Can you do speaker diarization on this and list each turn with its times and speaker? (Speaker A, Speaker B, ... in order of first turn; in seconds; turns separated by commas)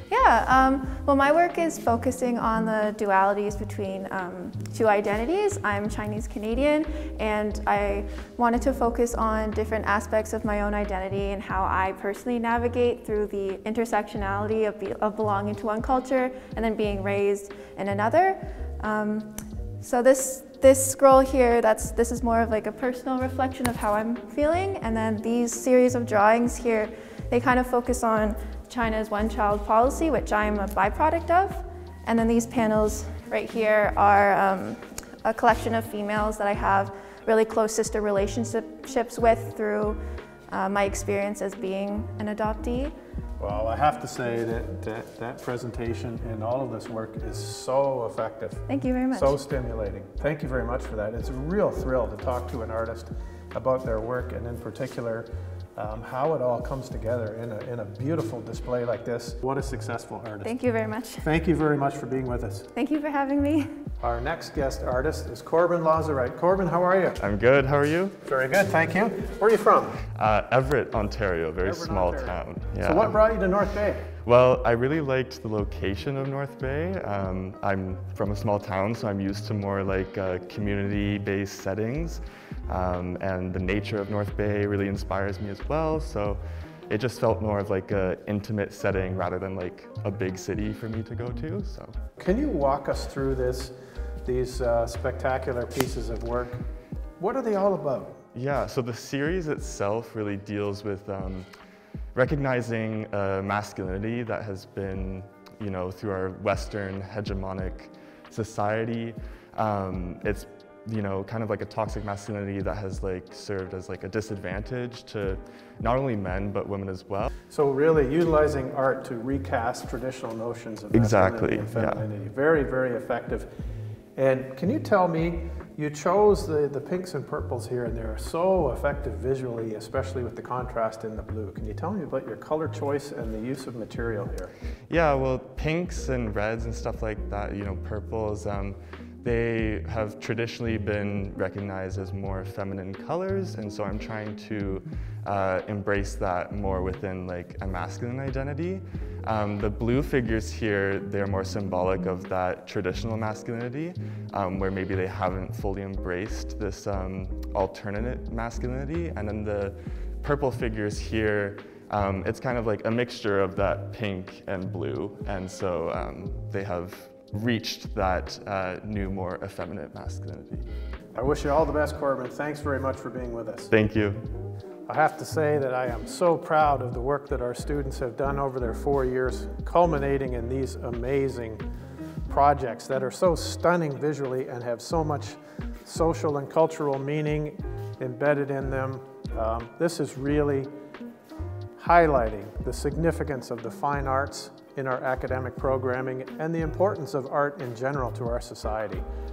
Speaker A: 0.1-42.9, Speaker B: 43.4-60.5, Speaker A: 48.7-49.4, Speaker A: 60.4-61.2, Speaker B: 61.2-62.7, Speaker A: 62.7-63.7, Speaker B: 64.0-67.2, Speaker C: 67.2-68.1, Speaker B: 68.2-70.0, Speaker C: 70.1-73.2, Speaker B: 71.6-74.1, Speaker C: 74.2-91.9, Speaker B: 92.2-93.7, Speaker B: 94.2-96.6, Speaker B: 97.2-98.2, Speaker C: 98.3-101.5, Speaker C: 102.1-117.3, Speaker B: 117.5-123.5, Speaker C: 120.9-122.0, Speaker B: 124.2-134.5, Speaker C: 134.9-170.7, Speaker B: 171.1-173.7, Speaker C: 173.7-174.2, Speaker B: 174.9-181.6, Speaker B: 182.3-190.7, Speaker B: 191.8-199.0